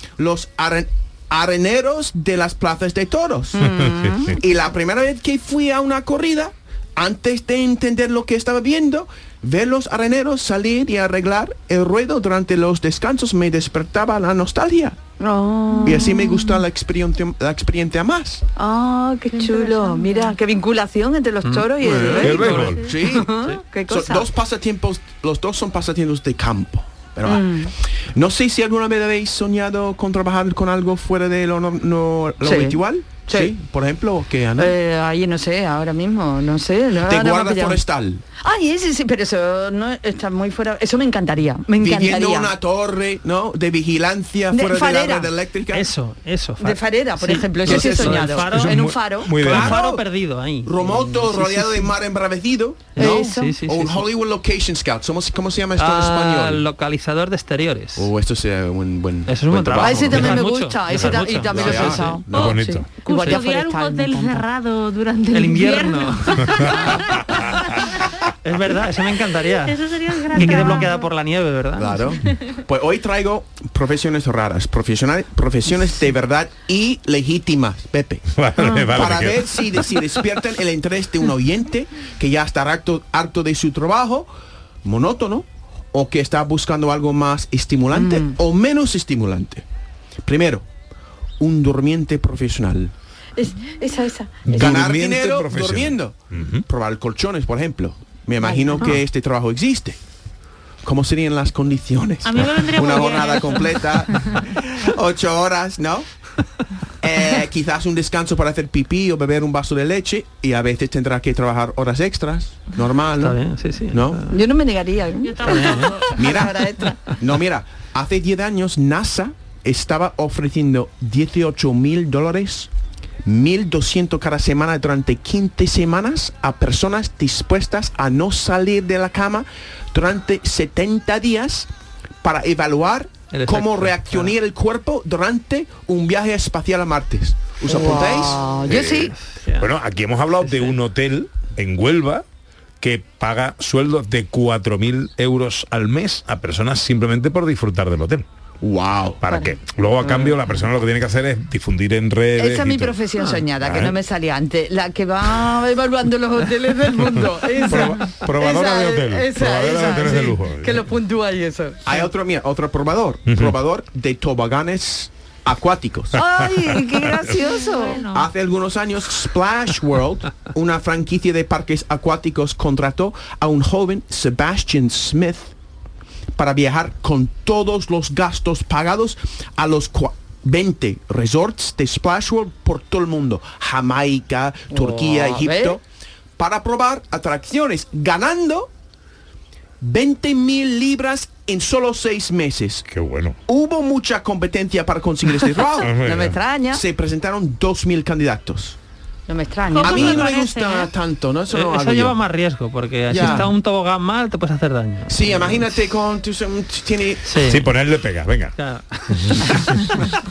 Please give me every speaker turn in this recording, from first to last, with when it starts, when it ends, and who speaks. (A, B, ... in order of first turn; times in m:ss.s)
0:00.2-0:03.6 A
0:03.6-0:04.4 B
0:03.6-0:04.3 C
0:04.3-0:15.0 A
0:15.2-0:16.6 B
0:15.8-0:18.4 A
0:18.6-0:24.3 B
0:19.4-0:20.2 D
0:21.4-0:21.7 E
0:21.8-0:23.3 A
0:22.0-0:23.0 D
0:22.2-0:22.8 C
0:22.4-0:22.7 E
0:23.9-0:34.7 A
0:27.2-0:27.7 B
0:32.4-0:33.5 B
0:34.6-0:37.8 B
0:37.0-0:38.2 A
0:38.4-0:42.5 B
0:41.8-0:45.9 A
0:44.5-0:45.3 B
0:45.7-0:48.8 E
0:46.6-0:49.7 B
0:47.9-0:49.8 C
0:49.4-0:50.7 E
0:49.6-0:50.0 A
0:50.6-0:56.6 A
0:51.2-0:51.6 B
0:51.3-0:51.8 E
0:52.9-0:53.5 B
0:52.9-0:54.0 E
0:55.8-0:58.1 E
0:58.0-1:02.7 A
0:59.3-1:02.1 E
0:59.8-1:04.4 B
1:02.3-1:02.9 C
1:02.3-1:07.8 D
1:05.3-1:06.4 E
1:06.6-1:07.2 C
1:08.4-1:09.8 E
1:09.5-1:11.0 D
1:10.3-1:11.9 E
1:10.4-1:10.9 B
1:11.8-1:18.2 A
1:18.3-1:19.6 C
1:18.9-1:24.3 A
1:24.8-1:29.6 A
1:27.9-1:28.4 B
1:30.2-1:30.6 A
1:31.4-1:32.9 A
1:33.4-1:34.8 B
1:34.4-1:36.6 C
1:34.5-1:40.0 A
1:38.4-1:39.0 B
1:40.8-1:46.1 A
1:42.2-1:44.1 D
1:47.0-1:53.4 A
1:53.2-1:54.3 E
1:53.9-1:54.2 A
1:54.3-1:57.0 B
1:55.2-1:56.5 D
1:55.4-1:56.0 E
1:56.2-2:02.7 A
2:03.2-2:11.7 A
2:12.2-2:18.4 A
2:13.3-2:14.3 E
2:17.6-2:19.1 B
2:18.6-2:22.2 C
2:18.8-2:19.7 E
2:20.4-2:20.7 E
2:22.8-2:28.2 C
2:28.6-2:29.2 A
2:29.2-2:33.0 C
2:30.0-2:30.4 B
2:32.4-2:41.9 B
2:33.6-2:33.9 C
2:37.6-2:40.8 C
2:41.8-2:46.2 A
2:43.3-2:43.5 C
2:46.1-2:48.0 B
2:47.6-2:48.3 D
2:48.1-2:55.5 A
2:56.4-3:05.8 A
3:04.7-3:05.8 B
3:06.4-3:08.7 A
3:09.8-3:12.9 A
3:12.9-3:13.4 C
3:13.5-3:16.0 A
3:15.8-3:16.8 B
3:15.8-3:16.4 C
3:16.7-3:18.8 A
3:19.3-3:20.3 B
3:19.7-3:20.9 D
3:19.8-3:22.2 A
3:21.5-3:25.6 E
3:23.1-3:23.5 A
3:25.1-3:27.6 A
3:27.3-3:27.6 E
3:27.4-3:28.6 C
3:28.6-3:29.8 E
3:29.1-3:29.9 C